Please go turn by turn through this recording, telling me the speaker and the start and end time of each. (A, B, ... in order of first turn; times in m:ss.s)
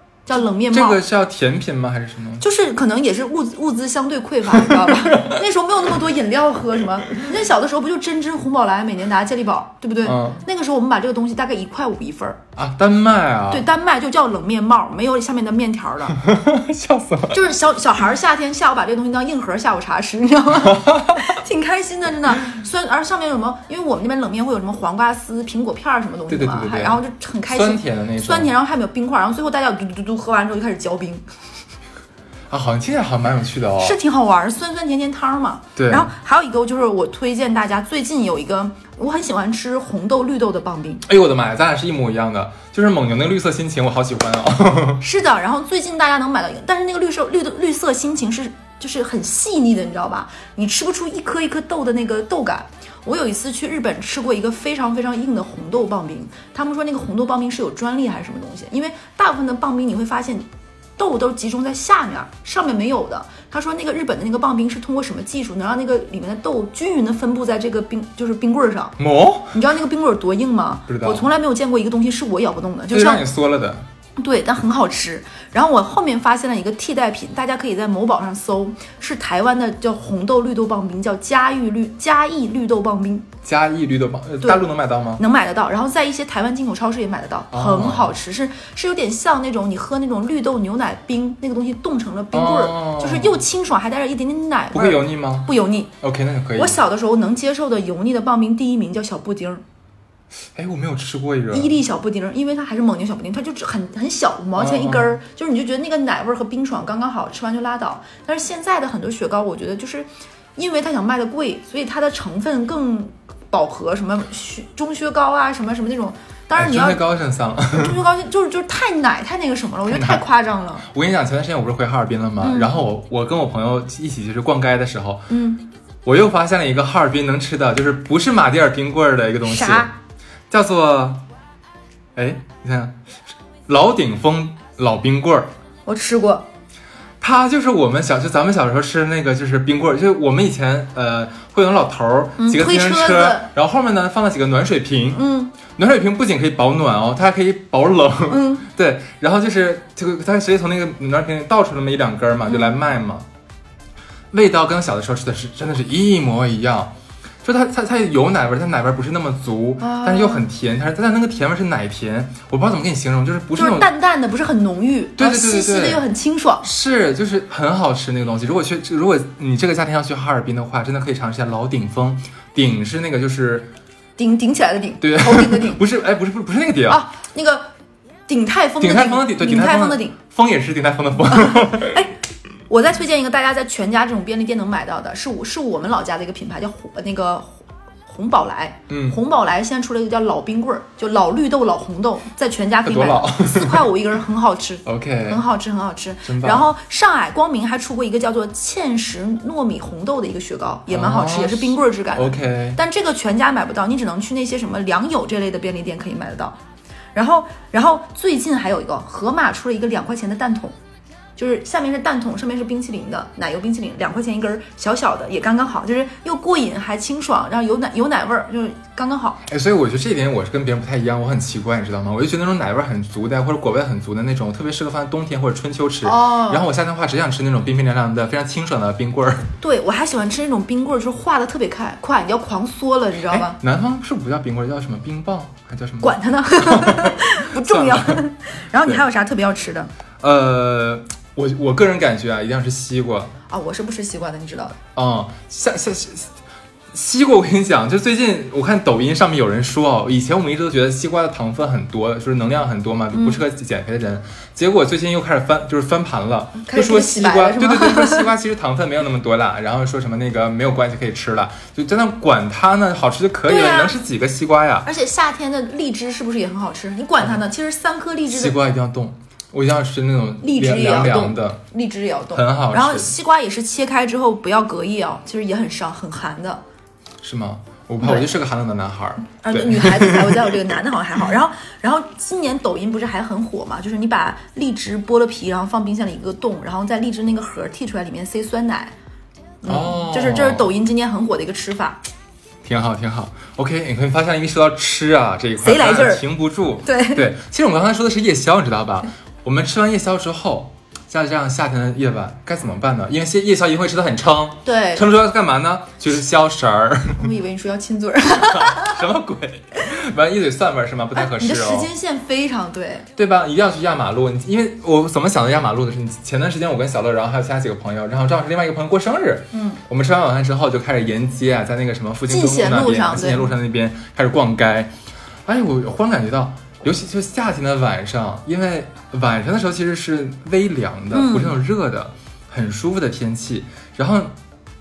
0:00.2-0:01.0 A
0:00.7-0:02.4 B
0:02.4-0:12.4 A
0:04.6-0:05.3 B
0:10.0-0:10.4 B
0:12.6-0:13.6 B
0:13.5-0:16.2 A
0:16.1-0:17.4 B
0:17.3-0:31.2 A
0:20.7-0:21.3 B
0:26.3-0:28.5 B
0:32.5-0:34.0 B
0:33.8-0:41.0 A
0:35.8-0:36.1 B
0:41.0-0:45.0 B
0:45.0-1:09.0 A
1:09.0-1:09.6 B
1:09.5-1:13.3 A
1:10.9-1:11.2 B
1:12.9-1:13.8 B
1:14.2-1:23.3 A
1:23.4-1:25.2 B
1:25.2-1:35.9 A
1:27.5-1:28.1 B
1:32.3-1:33.4 B
1:34.7-1:36.8 B
1:36.5-1:39.6 A
1:40.5-1:41.7 B
1:41.5-1:57.0 A
1:44.6-1:45.1 B
1:56.5-1:58.0 B
1:57.7-2:00.9 A
1:59.9-2:00.2 B
2:00.8-2:05.2 B
2:02.4-2:02.8 A
2:05.3-2:05.6 A
2:06.0-2:09.9 B
2:09.4-2:09.9 A
2:10.5-2:11.2 B
2:12.2-2:13.0 B
2:13.7-2:15.5 B
2:15.8-2:16.4 A
2:17.2-2:33.2 B
2:22.4-2:23.5 A
2:25.1-2:25.5 A
2:28.3-2:28.6 A
2:32.5-2:32.8 A
2:34.3-2:36.9 B
2:37.4-2:43.9 B
2:39.8-2:40.5 A
2:43.6-2:46.6 A
2:45.2-2:46.0 B
2:46.6-2:53.7 B
2:54.2-2:55.8 A
2:55.0-2:57.0 B
2:56.9-2:57.7 A
2:58.3-3:00.1 A
2:58.8-3:02.0 B
3:01.3-3:02.1 A
3:02.7-3:26.6 A
3:08.9-3:09.2 B
3:12.8-3:13.8 B
3:14.8-3:15.4 B
3:16.2-3:16.7 B
3:20.9-3:22.8 B
3:27.1-3:30.8 A
3:31.4-3:39.4 A
3:39.5-3:49.5 B
3:46.0-3:46.7 A
3:49.6-3:53.6 A
3:53.3-3:58.2 B
3:56.0-3:59.9 A
4:00.2-4:03.3 B
4:03.5-4:04.8 A
4:05.0-4:06.3 B
4:06.9-4:24.9 B
4:13.1-4:13.4 A
4:16.6-4:18.3 A
4:23.4-4:24.0 A
4:24.8-4:28.6 A
4:28.3-4:31.6 B
4:30.4-4:36.6 A
4:32.3-4:33.1 B
4:37.2-4:40.5 B
4:38.0-4:38.3 A
4:39.4-4:48.9 A
4:49.6-4:52.0 A
4:49.6-4:50.7 B
4:52.6-5:07.3 B
4:55.6-4:56.2 A
4:56.8-4:57.2 A
5:04.6-5:05.1 A
5:07.2-5:09.0 A
5:08.5-5:11.9 B
5:11.1-5:13.1 A
5:13.2-5:24.9 B
5:19.5-5:19.8 A
5:22.3-5:23.5 A
5:25.4-5:34.3 B
5:31.1-5:31.5 A